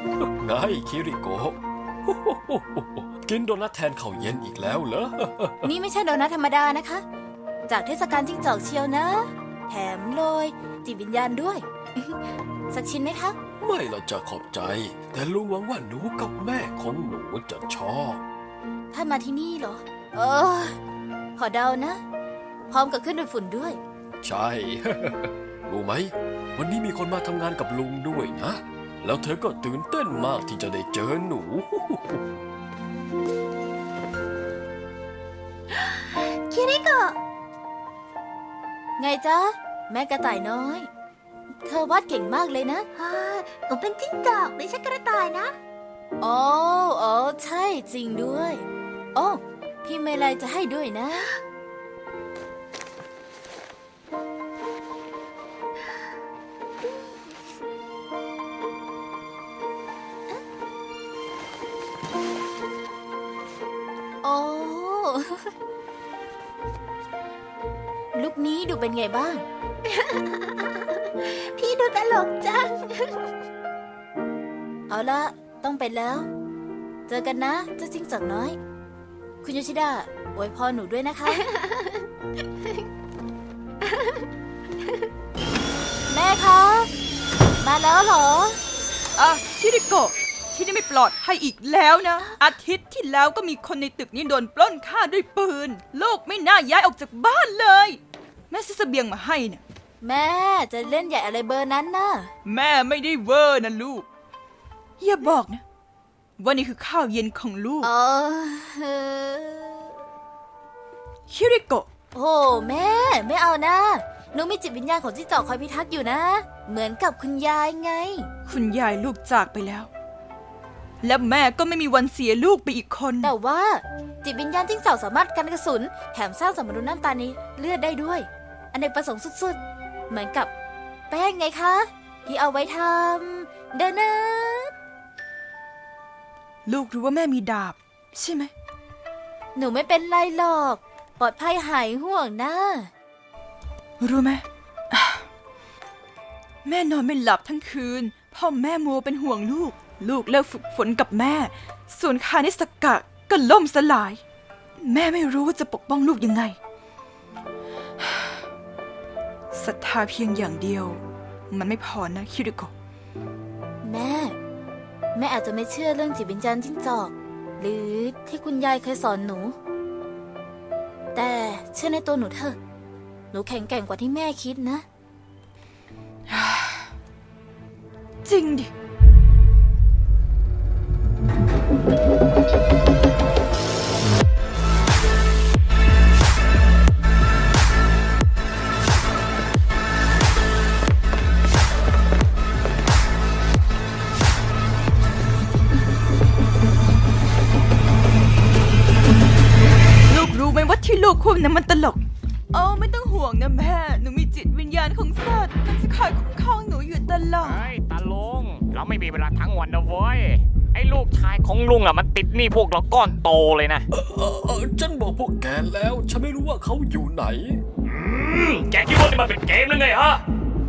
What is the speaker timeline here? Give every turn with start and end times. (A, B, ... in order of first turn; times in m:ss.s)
0:00.2-0:05.7 A
0:05.6-0:07.0 B
0:07.7-0:12.2 B
0:12.7-0:13.4 B
0:13.6-0:18.2 A
0:18.9-0:20.8 B
0:21.4-0:22.0 B
0:22.7-0:23.8 B
0:24.2-0:32.2 A
0:35.8-0:37.2 C
0:39.0-0:40.9 B
0:41.6-0:42.9 B
0:43.0-0:45.6 C
0:46.2-0:51.3 B
1:04.2-1:05.5 B
1:08.2-1:09.4 B
1:09.8-1:13.2 C
1:14.9-1:16.3 B
1:17.1-1:18.6 B
1:19.4-1:21.4 B
1:21.4-1:22.0 C
1:23.9-1:24.2 C
1:26.1-1:26.9 B
1:27.6-1:28.6 B
1:29.2-1:39.6 D
1:40.0-1:42.3 B
1:42.4-1:44.1 D
1:45.0-1:45.6 D
1:46.4-1:47.9 D
1:47.8-1:50.0 B
1:51.3-1:51.9 D
1:52.1-1:58.3 B
1:58.5-1:59.9 D
2:01.0-2:03.3 D
2:03.2-2:10.5 B
2:11.1-2:14.7 B
2:16.7-2:18.5 D
2:19.6-2:22.9 B
2:24.0-2:25.3 D
2:26.6-2:34.2 D
2:34.8-2:36.6 D
2:38.0-2:38.4 D
2:39.5-2:42.7 D
2:43.8-2:44.4 B
2:45.2-2:49.6 B
2:51.1-2:52.6 B
2:53.3-2:54.8 B
2:56.3-2:56.9 D
2:58.2-2:58.7 D
3:20.1-3:22.0 D
3:22.5-3:27.6 D
3:27.4-3:33.8 E
3:33.9-3:37.6 A
3:37.9-3:40.2 E